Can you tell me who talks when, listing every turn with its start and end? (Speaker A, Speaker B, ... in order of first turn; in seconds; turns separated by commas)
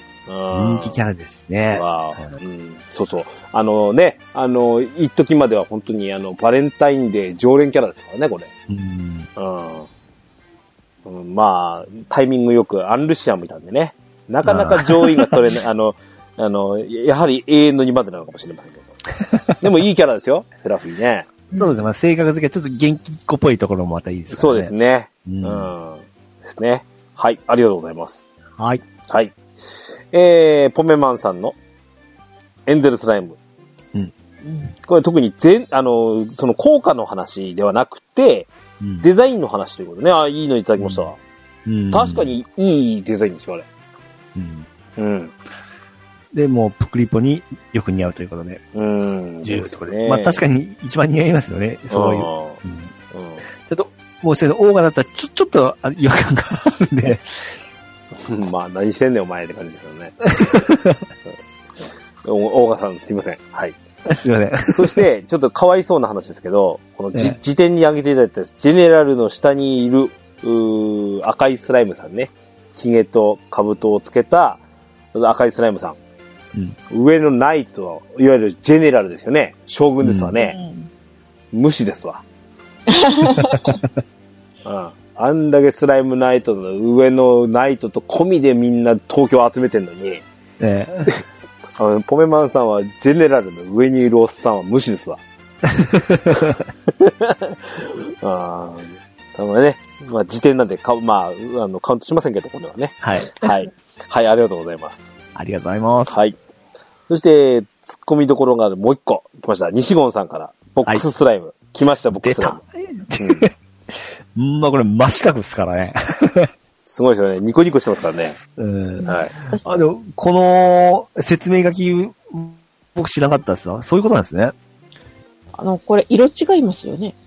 Speaker A: 0.3-1.0, Speaker B: 0.5-2.3, Speaker A: 1.7-8.5, Speaker B: 8.7-9.3, Speaker A: 9.4-9.9, Speaker A: 11.0-18.9, Speaker B: 14.4-15.4, Speaker A: 19.6-21.3, Speaker B: 21.5-24.7, Speaker A: 24.3-28.3, Speaker B: 25.2-25.7, Speaker B: 28.6-28.8, Speaker A: 29.1-29.4, Speaker A: 30.1-31.6, Speaker A: 32.6-33.4, Speaker A: 34.9-38.5, Speaker B: 38.8-39.1, Speaker A: 39.0-41.2, Speaker B: 40.8-41.1, Speaker B: 41.6-42.3, Speaker A: 41.9-43.6, Speaker B: 44.3-44.7, Speaker A: 45.0-45.3, Speaker B: 46.3-48.6, Speaker A: 48.7-50.4, Speaker B: 49.4-52.9, Speaker A: 51.9-52.6, Speaker A: 53.1-53.4, Speaker B: 53.7-57.5, Speaker A: 58.2-60.1, Speaker B: 60.3-61.0, Speaker A: 61.8-63.8, Speaker B: 64.1-65.0, Speaker A: 64.7-74.6, Speaker A: 75.1-76.0, Speaker A: 76.9-80.5, Speaker B: 80.0-80.3, Speaker C: 80.4-80.9, Speaker A: 81.5-82.2, Speaker C: 82.9-83.8, Speaker A: 84.6-90.2, Speaker B: 90.6-91.1, Speaker A: 91.8-95.2, Speaker B: 95.6-96.7, Speaker A: 97.0-105.1, Speaker B: 103.0-103.3, Speaker B: 105.3-106.2, Speaker A: 106.1-106.3, Speaker A: 107.1-112.6, Speaker B: 112.2-116.5, Speaker A: 113.2-113.5, Speaker A: 116.8-118.4, Speaker B: 118.5-119.1, Speaker C: 119.0-119.8, Speaker A: 119.0-119.3, Speaker B: 119.6-124.5, Speaker C: 125.5-127.1